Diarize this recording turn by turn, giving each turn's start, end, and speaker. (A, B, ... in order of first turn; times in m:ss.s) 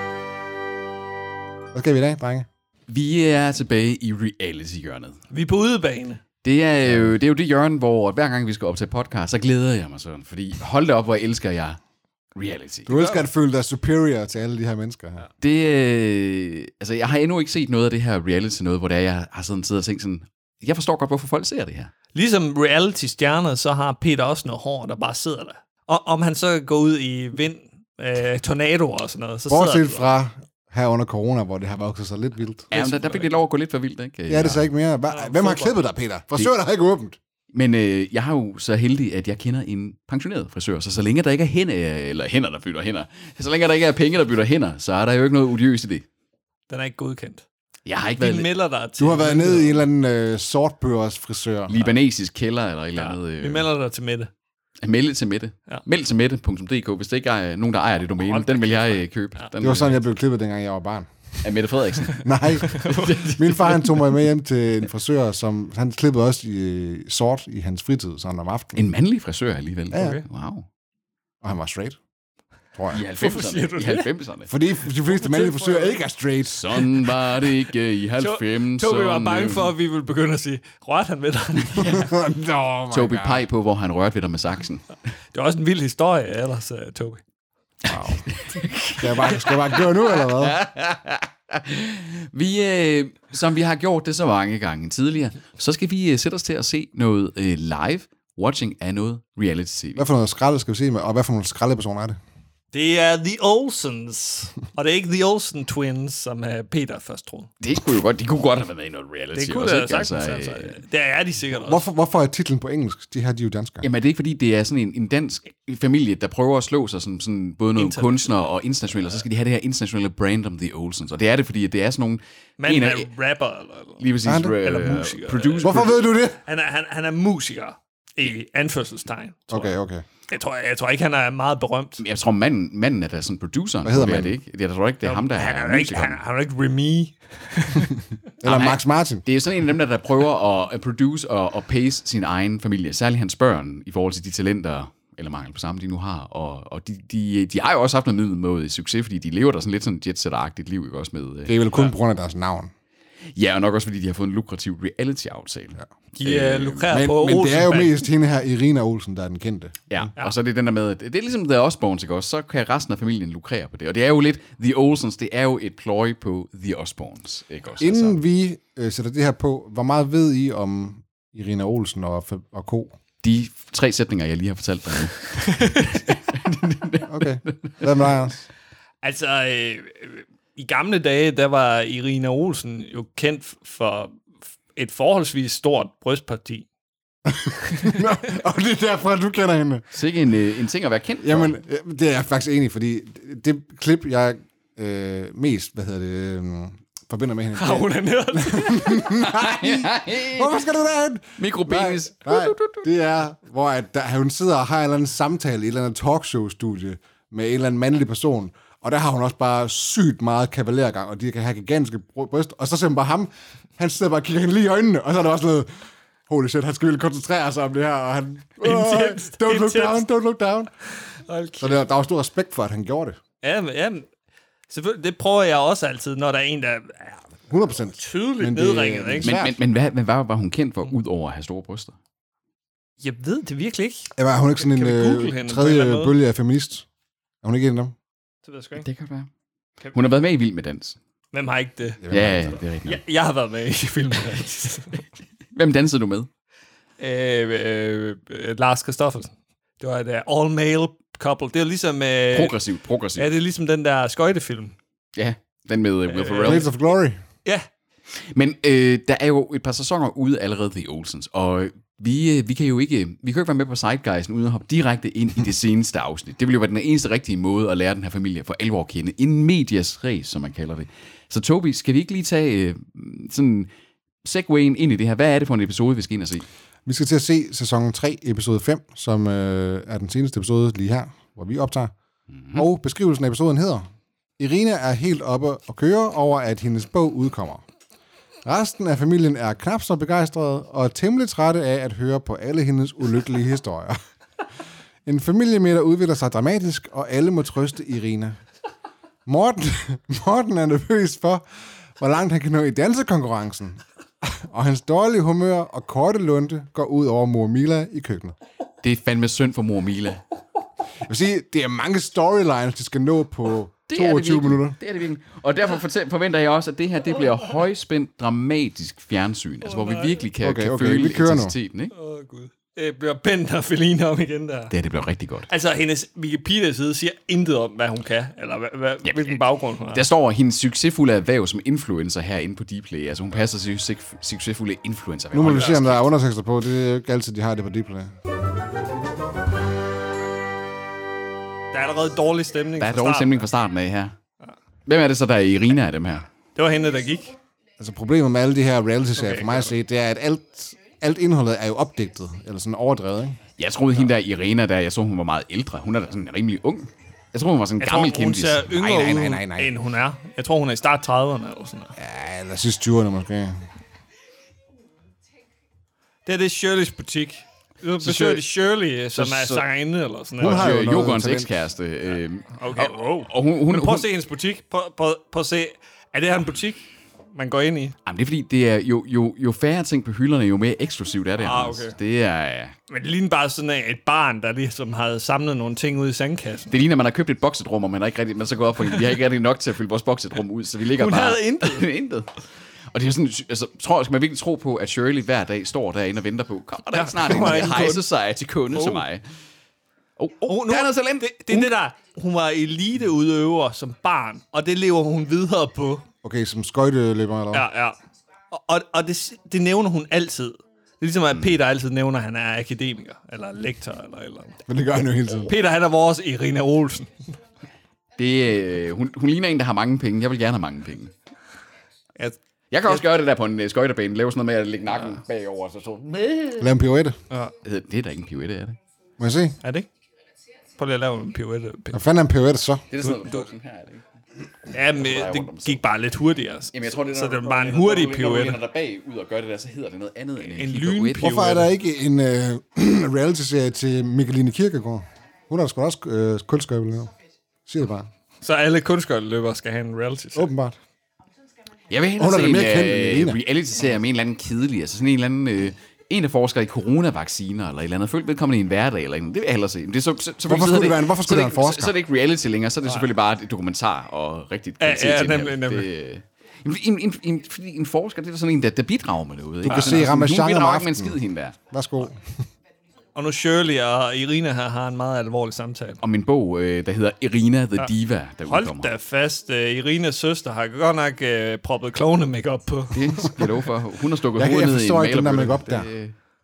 0:01.7-0:02.5 A
0:02.9-0:05.2 B
0:05.3-0:06.2 C
0:06.4-0:11.8 B
0:06.8-0:07.2 A
0:12.4-0:13.0 B
0:12.9-0:15.3 A
0:13.0-0:13.2 C
0:15.4-0:21.9 B
0:22.1-0:30.1 C
0:29.5-0:32.7 A
0:32.7-0:33.3 C
0:32.7-0:34.7 B
0:34.3-0:37.2 A
0:35.1-0:35.8 C
0:37.5-0:46.0 B
0:46.7-0:47.4 C
0:47.9-0:48.5 B
0:48.2-0:49.8 C
0:49.0-0:51.8 A
0:51.7-0:53.7 B
0:52.9-0:54.3 C
0:54.8-1:00.0 B
0:58.2-0:58.7 C
0:59.6-1:01.1 A
1:01.4-1:03.9 B
1:02.2-1:08.9 A
1:02.6-1:03.4 C
1:08.8-1:10.7 B
1:09.9-1:10.2 A
1:10.0-1:10.2 C
1:11.4-1:12.0 A
1:12.8-1:13.0 A
1:12.9-1:14.5 B
1:13.0-1:14.1 C
1:14.5-1:17.0 A
1:15.0-1:16.0 C
1:16.5-1:19.7 B
1:18.2-1:22.1 C
1:21.8-1:23.5 A
1:22.9-1:24.9 B
1:25.3-1:27.2 C
1:27.8-1:40.1 B
1:27.9-1:28.2 A
1:29.0-1:30.6 A
1:40.0-1:42.2 A
1:42.7-1:47.5 C
1:47.6-1:50.8 B
1:49.4-1:51.8 C
1:51.6-1:53.9 A
1:53.8-2:03.1 B
1:57.8-1:58.3 C
2:02.6-2:04.0 C
2:04.0-2:06.0 B
2:04.2-2:04.6 A
2:04.6-2:09.6 C
2:05.6-2:06.4 A
2:09.5-2:10.0 A
2:10.3-2:12.0 C
2:12.0-2:16.2 B
2:13.8-2:14.4 A
2:15.0-2:17.9 C
2:18.4-2:19.2 A
2:18.4-2:31.5 B
2:31.5-2:32.7 A
2:33.4-2:37.0 B
2:36.2-2:38.0 C
2:36.9-2:40.1 A
2:39.9-2:48.2 B
2:47.8-2:52.9 A
2:53.2-2:57.8 B
2:55.5-2:55.9 C
2:57.1-2:58.5 A
2:59.0-3:04.2 C
3:04.8-3:06.7 C
3:07.3-3:09.9 A
3:07.7-3:08.0 C
3:09.9-3:11.6 B
3:11.2-3:35.7 A
3:17.5-3:19.2 C
3:19.2-3:20.7 B
3:21.4-3:22.9 B
3:36.3-3:40.7 A
3:38.6-3:40.0 C
3:41.0-3:41.8 C
3:41.6-3:43.2 A
3:43.4-3:44.1 C
3:44.7-3:49.4 C
3:47.5-3:49.6 A
3:49.2-3:52.0 B
3:53.0-3:56.2 C
3:54.2-3:56.9 A
3:57.4-3:57.9 A
3:58.4-3:58.9 C
3:58.8-3:59.3 B
3:59.9-4:01.0 B
4:01.3-4:02.0 C
4:02.0-4:02.6 A
4:02.1-4:03.0 B
4:02.8-4:05.0 C
4:05.6-4:06.3 B
4:07.0-4:12.6 C
4:12.3-4:13.3 B
4:13.2-4:14.8 C
4:15.2-4:16.7 B
4:16.1-4:16.7 C
4:16.4-4:17.2 A
4:18.3-4:33.7 B
4:34.2-4:36.5 B
4:36.9-4:41.9 A
4:42.5-4:43.9 A
4:44.4-4:47.6 A
4:48.4-4:54.0 A
4:55.1-4:58.4 A
4:59.3-5:01.4 A
5:02.0-5:08.4 A
5:08.8-5:10.2 B
5:11.0-5:14.8 A
5:13.9-5:21.9 B
5:19.6-5:20.2 C
5:20.4-5:21.5 A
5:21.9-5:24.7 C
5:24.7-5:25.5 B
5:25.5-5:30.0 C
5:29.0-5:29.4 B
5:29.9-5:36.1 B
5:35.3-5:38.1 A
5:41.7-5:43.4 C
5:42.8-5:44.1 B
5:44.9-5:46.3 B
5:46.6-5:47.4 C
5:47.8-5:53.4 A
5:49.2-5:49.7 C
5:53.6-5:58.7 B
5:57.8-6:02.0 C
5:58.7-5:59.7 A
6:02.0-6:03.6 A
6:06.3-6:10.8 C
6:08.0-6:08.4 B
6:09.2-6:09.7 B
6:10.4-6:11.5 A
6:10.4-6:14.1 B
6:12.5-6:18.0 C
6:18.0-6:22.8 B
6:21.4-6:22.0 C
6:22.9-6:26.8 C
6:26.7-6:32.4 B
6:30.9-6:31.9 C
6:32.9-6:39.2 B
6:36.9-6:38.0 C
6:38.7-6:39.0 C
6:40.2-6:41.7 B
6:40.5-6:46.0 C
6:46.2-6:47.7 A
6:47.5-6:48.0 C
6:48.5-6:54.6 C
6:51.3-6:51.6 B
6:54.7-6:55.5 A
6:55.5-6:57.1 C
6:58.2-7:01.1 B
7:02.7-7:06.7 B
7:06.6-7:07.2 A
7:07.6-7:08.8 B
7:09.2-7:09.6 A
7:09.6-7:09.9 C
7:10.8-7:12.0 C
7:11.9-7:12.8 A
7:12.9-7:14.0 B
7:13.0-7:13.4 C
7:14.7-7:18.6 C
7:15.0-7:15.8 B
7:16.7-7:21.4 B
7:20.4-7:21.7 C
7:21.2-7:27.1 A
7:27.7-7:28.1 A
7:28.4-7:30.5 C
7:30.4-7:30.8 A
7:31.9-7:51.6 B
7:32.2-7:33.4 A
7:40.4-7:42.0 A
7:44.8-7:45.9 C
7:49.6-7:51.2 A
7:49.7-7:49.9 C
7:51.7-7:52.3 A
7:53.2-7:56.0 C
7:56.0-7:58.9 B
7:58.5-8:03.5 C
8:02.9-8:06.2 B
8:04.3-8:05.9 A